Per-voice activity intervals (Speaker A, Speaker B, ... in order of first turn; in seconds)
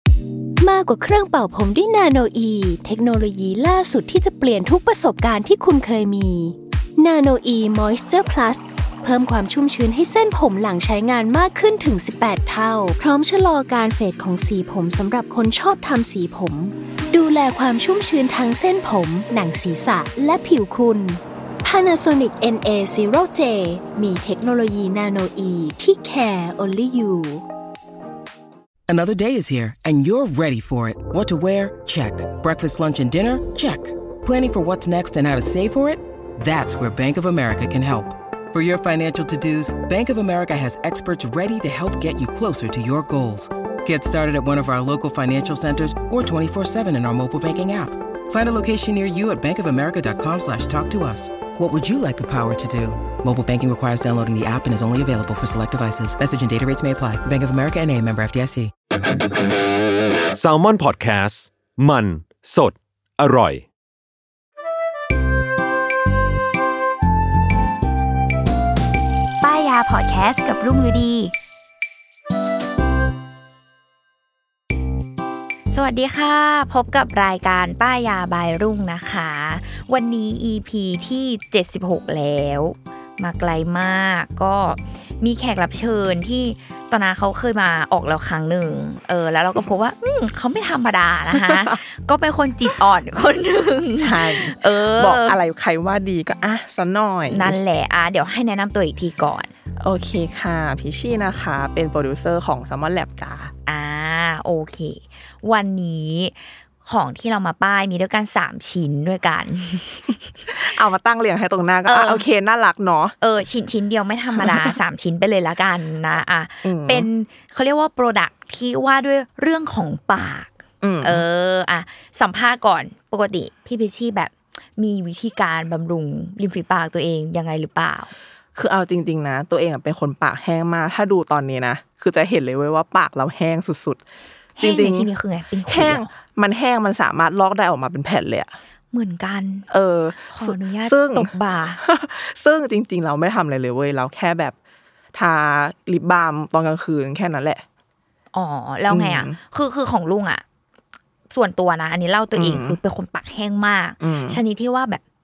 Speaker A: 0.6-27.4
Speaker B: 28.9-58.7
Speaker C: 60.3-63.6
Speaker D: 69.4-71.3, 75.7-95.4, 97.3-99.5, 103.7-110.2, 111.8-112.2, 113.2-120.5, 121.0-128.1, 134.6-136.0, 138.9-139.7, 140.3-141.8, 148.3-150.4, 151.3-155.0
Speaker E: 91.3-91.8, 94.0-97.5, 99.8-103.5, 110.5-113.2, 114.3-114.7, 116.6-117.1, 120.8-121.2, 128.5-134.0, 134.6-135.1, 135.7-138.5, 139.7-144.5, 145.1-147.6, 148.9-149.3, 152.3-152.8, 154.0-154.4